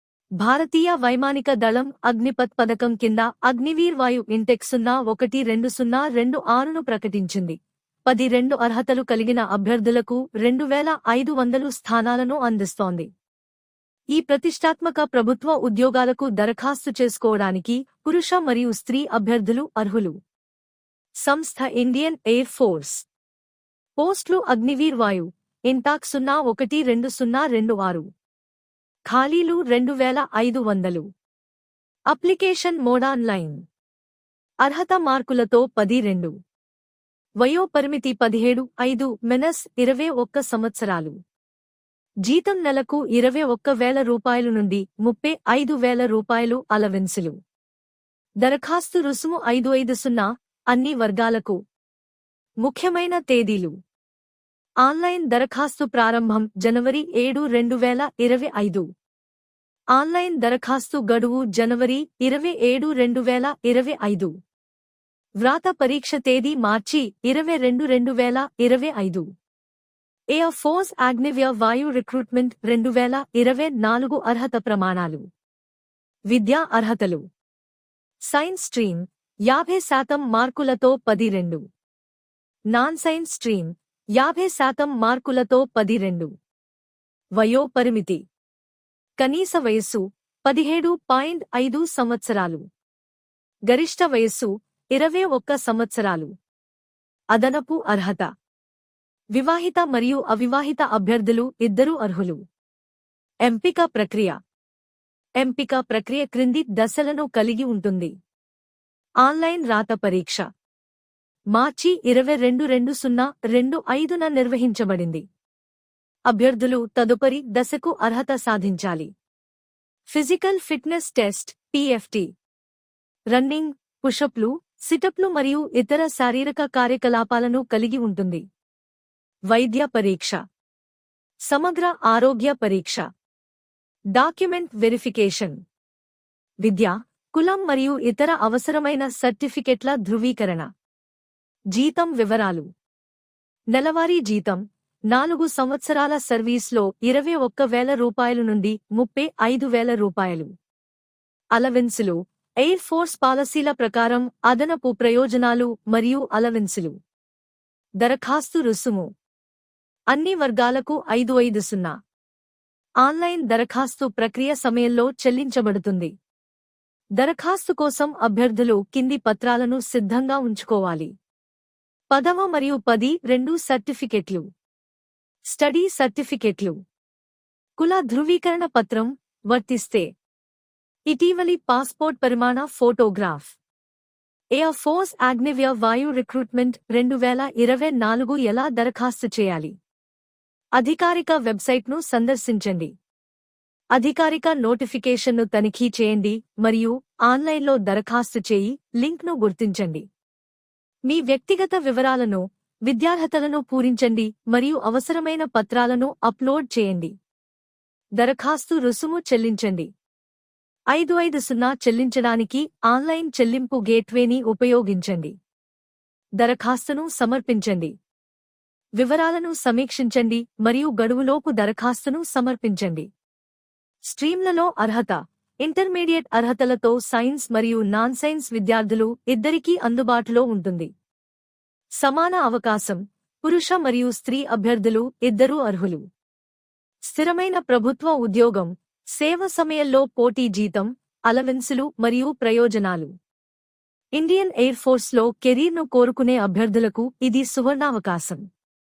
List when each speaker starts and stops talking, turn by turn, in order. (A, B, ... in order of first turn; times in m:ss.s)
0:00.4-0:13.1 A
0:14.1-0:20.2 A
0:21.2-0:23.1 A
0:24.0-0:28.1 A
0:29.1-0:31.1 A
0:32.1-0:33.6 A
0:34.6-0:36.3 A
0:37.4-0:41.2 A
0:42.2-0:47.4 A
0:48.4-0:51.6 A
0:52.6-0:53.8 A
0:54.8-0:58.9 A
1:00.0-1:04.3 A
1:05.4-1:09.3 A
1:10.3-1:15.3 A
1:16.3-1:17.2 A
1:18.3-1:21.6 A
1:22.7-1:26.3 A
1:27.4-1:28.2 A
1:29.2-1:32.7 A
1:33.7-1:36.3 A
1:37.3-1:38.3 A
1:39.4-1:42.4 A
1:43.5-1:44.4 A
1:45.4-1:48.1 A
1:49.2-1:50.5 A
1:51.5-1:55.2 A
1:56.3-1:59.1 A
2:00.1-2:02.3 A
2:03.3-2:08.4 A
2:09.5-2:10.4 A
2:11.5-2:13.1 A
2:14.2-2:15.6 A
2:16.6-2:20.7 A
2:21.7-2:22.7 A
2:23.7-2:30.5 A
2:31.6-2:37.0 A
2:38.0-2:39.1 A
2:40.1-2:41.9 A
2:43.0-2:46.1 A
2:47.2-2:51.1 A
2:52.1-2:54.5 A
2:55.5-2:56.8 A
2:57.8-3:00.1 A
3:01.1-3:03.6 A
3:04.6-3:09.7 A
3:10.8-3:12.9 A
3:14.0-3:20.1 A
3:21.1-3:27.2 A
3:28.2-3:29.9 A
3:30.9-3:35.4 A
3:36.4-3:37.9 A
3:39.0-3:43.1 A
3:44.1-3:50.9 A
3:52.0-3:56.0 A
3:57.1-4:03.1 A
4:04.2-4:08.5 A